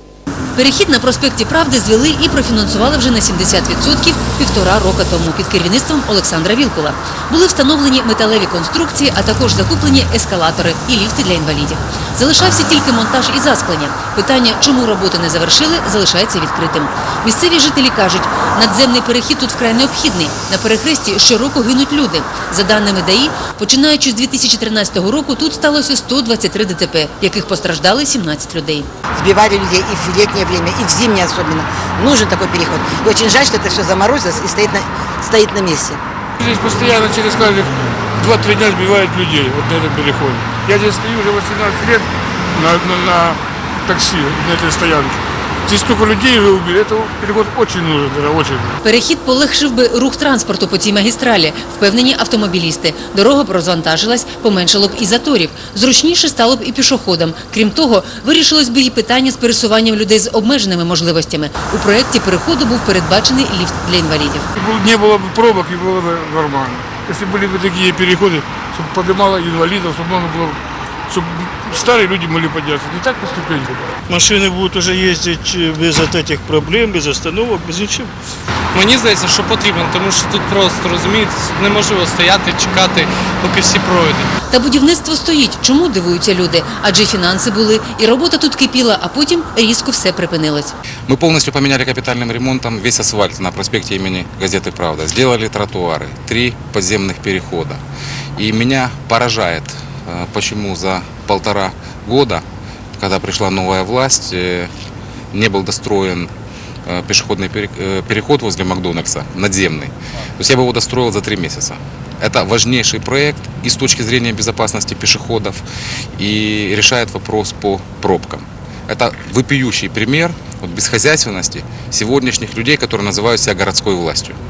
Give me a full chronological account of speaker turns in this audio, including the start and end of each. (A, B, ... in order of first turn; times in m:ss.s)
0:00.5-0:28.9 A
0:29.1-0:36.0 B
0:36.4-0:48.8 C
0:48.8-1:04.5 A
1:04.6-1:13.9 C
1:14.1-1:18.1 D
1:18.7-1:24.3 E
1:24.5-1:30.7 A
1:31.1-1:37.8 F
1:38.4-1:42.4 F
1:43.0-1:44.7 F
1:45.3-1:46.3 F
1:46.8-1:55.6 F
1:56.2-2:04.4 F